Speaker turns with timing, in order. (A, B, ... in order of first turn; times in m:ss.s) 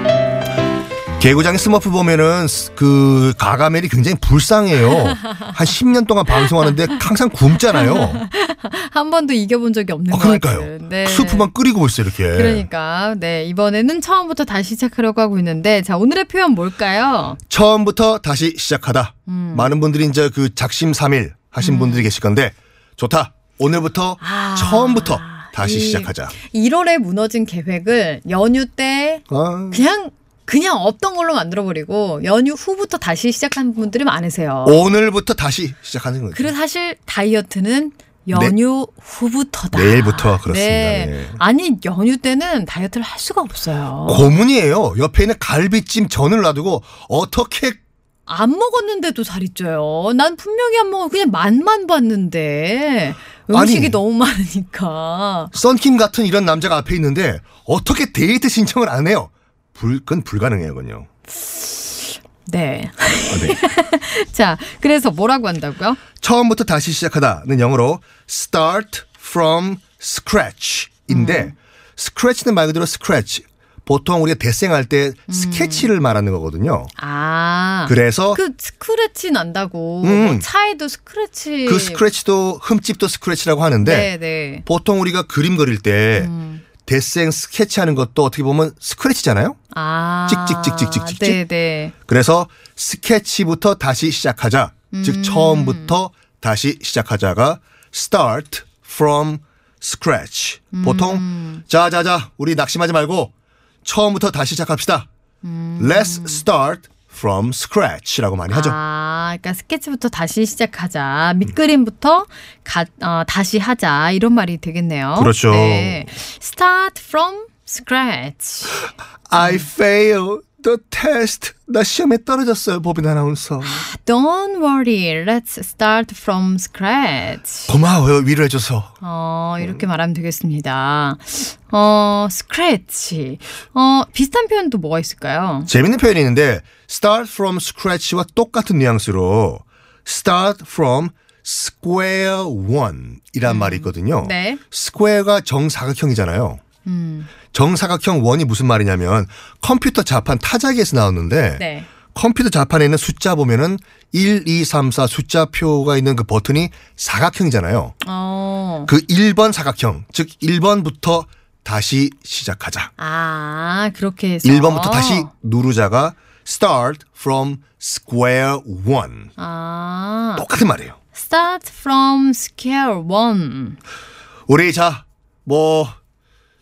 0:01.2-0:08.2 A
0:07.8-0:11.5 B
0:10.1-0:12.6 A
0:12.3-0:17.4 B
0:17.5-0:26.3 A
0:19.3-0:19.7 B
0:21.6-0:22.1 B
0:24.2-0:34.8 B
0:29.3-0:29.8 A
0:34.6-0:36.5 A
0:36.3-0:44.3 B
0:39.7-0:41.4 A
0:44.1-0:47.8 A
0:48.3-0:55.5 B
0:53.5-0:54.0 A
0:55.5-1:01.1 A
1:01.4-1:06.0 B
1:03.3-1:03.6 A
1:06.2-1:16.9 A
1:11.1-1:11.5 B
1:15.3-1:15.9 B
1:17.0-1:22.0 B
1:17.9-1:18.4 A
1:20.0-1:20.4 A
1:21.6-1:24.1 A
1:23.8-1:24.6 B
1:24.6-1:26.3 A
1:26.1-1:26.6 B
1:26.8-1:29.6 A
1:29.7-1:31.9 B
1:30.3-1:31.4 A
1:32.1-1:43.3 A
1:34.9-1:36.0 B
1:40.7-1:41.6 B
1:43.8-1:45.1 A
1:45.4-1:46.4 B
1:45.8-1:48.8 A
1:48.5-1:58.8 B
1:55.2-1:56.1 A
1:59.3-2:03.8 A
1:59.4-1:59.6 B
2:03.6-2:07.7 B
2:07.7-2:08.9 A
2:09.0-2:15.7 B
2:15.7-2:26.6 A
2:23.4-2:24.6 B
2:26.8-2:27.3 B
2:27.5-2:31.6 A
2:31.6-2:31.9 B
2:32.1-2:37.9 A
2:38.0-2:38.9 B
2:38.9-2:42.9 A
2:43.0-2:45.3 B
2:44.4-2:49.3 A
2:49.4-2:50.4 B
2:50.4-2:51.0 A
2:51.1-2:53.8 B
2:54.5-2:56.0 A